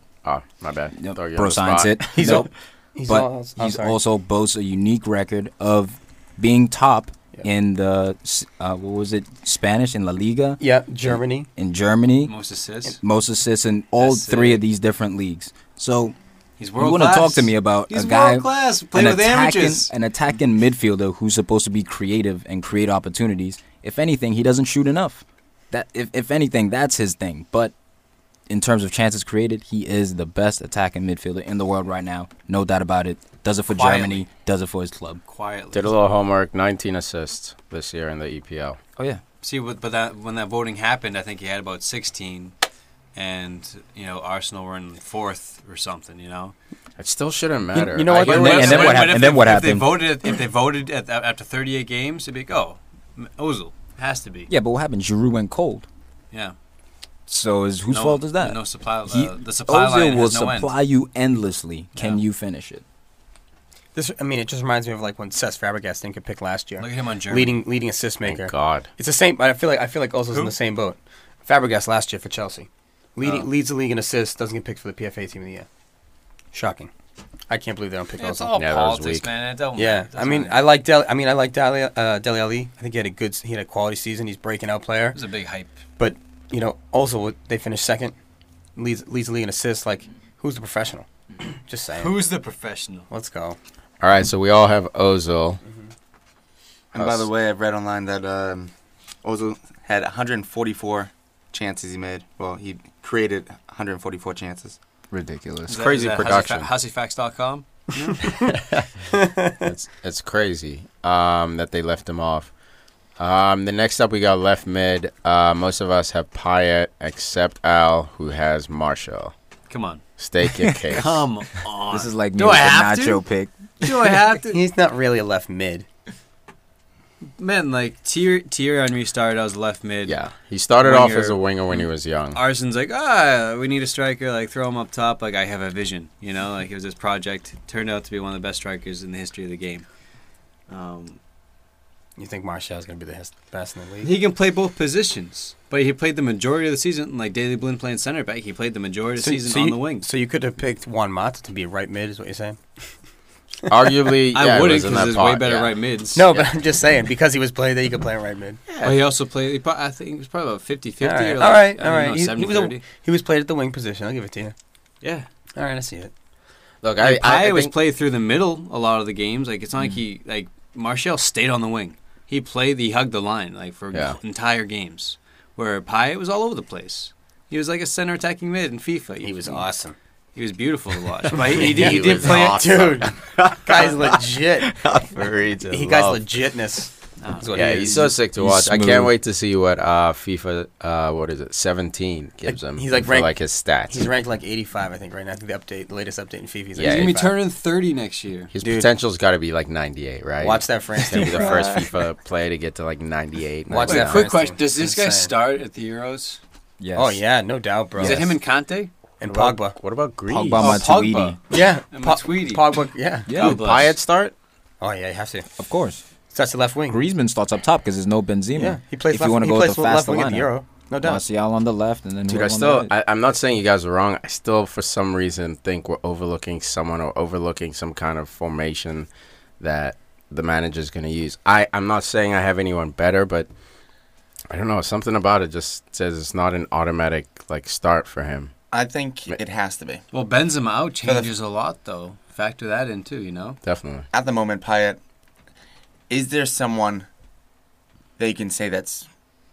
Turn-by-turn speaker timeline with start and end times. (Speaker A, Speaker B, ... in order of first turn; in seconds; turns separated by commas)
Speaker A: 0.2-2.4, Speaker B: 0.9-2.5, Speaker C: 2.1-4.0, Speaker B: 3.1-12.3, Speaker C: 10.6-11.5, Speaker D: 12.2-13.0, Speaker B: 13.0-16.1, Speaker D: 14.0-14.6, Speaker D: 16.6-19.9, Speaker B: 16.8-27.7, Speaker B: 28.5-35.2, Speaker D: 33.7-34.2, Speaker D: 35.3-35.9, Speaker A: 35.7-38.8, Speaker B: 39.0-39.2, Speaker D: 39.4-42.5, Speaker D: 43.1-46.5, Speaker A: 47.0-49.0, Speaker C: 47.7-49.2, Speaker D: 48.1-54.5, Speaker B: 48.2-50.0, Speaker B: 54.5-55.9, Speaker B: 57.3-62.8, Speaker D: 57.9-60.7, Speaker D: 62.0-62.2, Speaker C: 63.9-75.7, Speaker D: 66.8-67.6, Speaker A: 68.2-68.9, Speaker D: 73.2-73.5, Speaker C: 76.5-76.9, Speaker C: 77.5-78.6, Speaker D: 78.2-80.6, Speaker A: 78.5-79.3, Speaker C: 79.8-85.2, Speaker D: 85.1-85.8, Speaker C: 86.0-88.1, Speaker C: 88.8-92.2, Speaker D: 91.9-93.1, Speaker C: 93.1-93.6, Speaker A: 94.0-95.6, Speaker A: 96.9-97.3, Speaker E: 96.9-98.7, Speaker E: 99.2-104.8, Speaker B: 105.1-105.8, Speaker D: 105.7-108.4, Speaker A: 105.7-106.7, Speaker A: 108.5-108.8, Speaker C: 109.1-109.6, Speaker A: 109.6-112.5, Speaker A: 113.2-119.3, Speaker D: 119.7-120.0, Speaker A: 120.2-121.2, Speaker D: 120.9-123.2, Speaker B: 121.9-124.0, Speaker D: 123.8-124.6, Speaker C: 124.5-125.8, Speaker D: 127.4-130.2, Speaker A: 130.1-132.4, Speaker D: 130.8-131.4, Speaker D: 132.3-139.8, Speaker D: 140.7-141.2, Speaker C: 142.2-144.1, Speaker D: 144.0-150.1, Speaker C: 149.2-152.8, Speaker A: 153.7-155.8, Speaker D: 154.3-156.4, Speaker C: 156.1-158.6, Speaker A: 158.7-159.0, Speaker D: 158.8-162.8, Speaker C: 161.0-164.5, Speaker D: 165.0-165.3, Speaker C: 165.6-166.1, Speaker A: 166.8-167.7, Speaker D: 167.0-179.7, Speaker C: 179.2-179.9, Speaker D: 180.3-182.8, Speaker A: 181.3-186.2, Speaker C: 181.5-183.1, Speaker C: 183.6-184.7, Speaker C: 185.7-188.1, Speaker D: 187.2-187.5, Speaker A: 187.5-194.1, Speaker B: 188.3-189.1, Speaker C: 192.4-193.3, Speaker C: 193.9-197.3, Speaker A: 196.8-197.2, Speaker D: 196.8-198.5, Speaker A: 198.5-204.2, Speaker C: 198.6-198.9, Speaker C: 200.4-201.9, Speaker C: 203.7-205.3, Speaker D: 203.8-206.4, Speaker B: 206.8-207.2, Speaker C: 206.9-208.3, Speaker B: 208.0-208.2, Speaker D: 208.0-208.9, Speaker C: 209.2-209.8, Speaker A: 209.3-210.8, Speaker B: 210.3-211.4, Speaker D: 210.6-211.4, Speaker C: 211.5-213.3, Speaker D: 211.9-212.7, Speaker B: 213.3-213.6, Speaker D: 213.3-213.9, Speaker A: 213.3-214.3, Speaker C: 214.8-215.5, Speaker B: 215.6-216.0, Speaker C: 216.3-217.0, Speaker B: 216.9-222.9, Speaker C: 218.5-221.2, Speaker A: 222.3-229.1, Speaker A: 229.6-233.5, Speaker A: 234.5-238.5, Speaker E: 238.7-240.0, Speaker D: 240.1-243.6, Speaker E: 241.0-241.3, Speaker A: 243.6-244.1, Speaker E: 244.1-245.0, Speaker E: 246.1-247.1, Speaker E: 248.2-249.1